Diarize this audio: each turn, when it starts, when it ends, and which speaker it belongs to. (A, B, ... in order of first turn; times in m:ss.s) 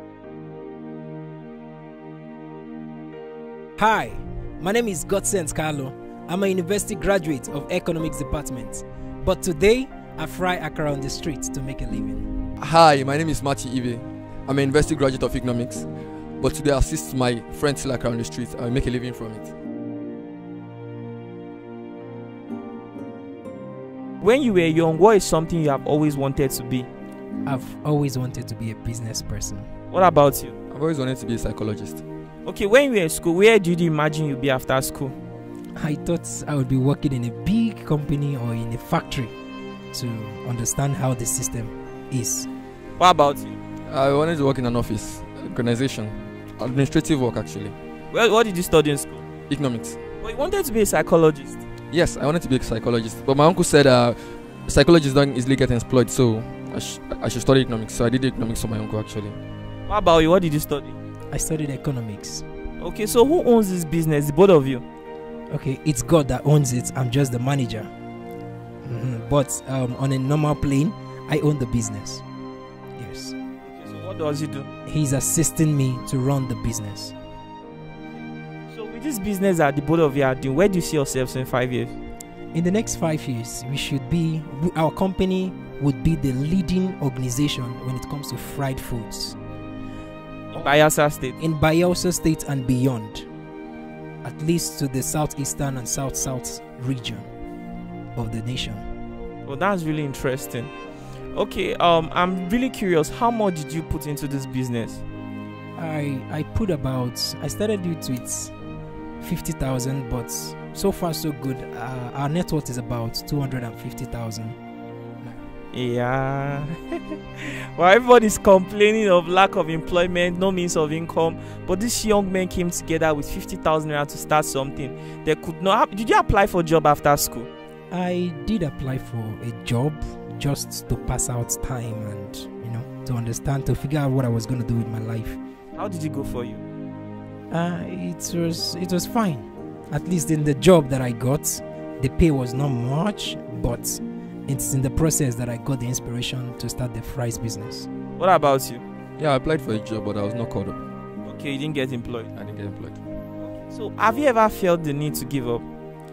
0:03.8-0:12.3 A
0:12.6-0:19.5 B
0:24.2-0:26.9 C
0:27.4-0:29.7 A
0:29.9-0:30.5 C
0:30.7-0:32.0 B
0:32.4-0:35.1 C
0:35.8-0:39.3 A
0:39.9-0:42.5 A
0:43.0-0:43.6 C
0:43.9-0:47.7 B
0:48.1-0:49.2 C
0:49.5-0:50.0 B
0:50.2-0:51.6 C
0:51.9-0:59.4 B
0:59.9-1:01.0 C
1:01.3-1:02.4 A
1:02.8-1:04.8 C
1:05.5-1:07.9 A
1:08.8-1:12.2 A
1:13.0-1:13.4 A
1:13.6-1:14.7 C
1:14.8-1:17.1 A
1:18.7-1:21.9 C
1:22.5-1:29.4 A
1:30.5-1:31.4 C
1:31.4-1:33.3 A
1:34.2-1:37.3 A
1:38.1-1:38.8 A
1:39.4-1:40.7 C
1:41.3-1:45.0 C
1:45.8-1:48.5 A
1:49.2-1:54.6 A
1:55.7-2:07.5 C
2:07.9-2:15.4 A
2:15.7-2:16.6 C
2:17.5-2:27.9 A
2:28.2-2:28.8 C
2:29.2-2:30.8 B
2:31.2-2:32.3 C
2:32.3-2:33.0 B
2:33.4-2:35.6 C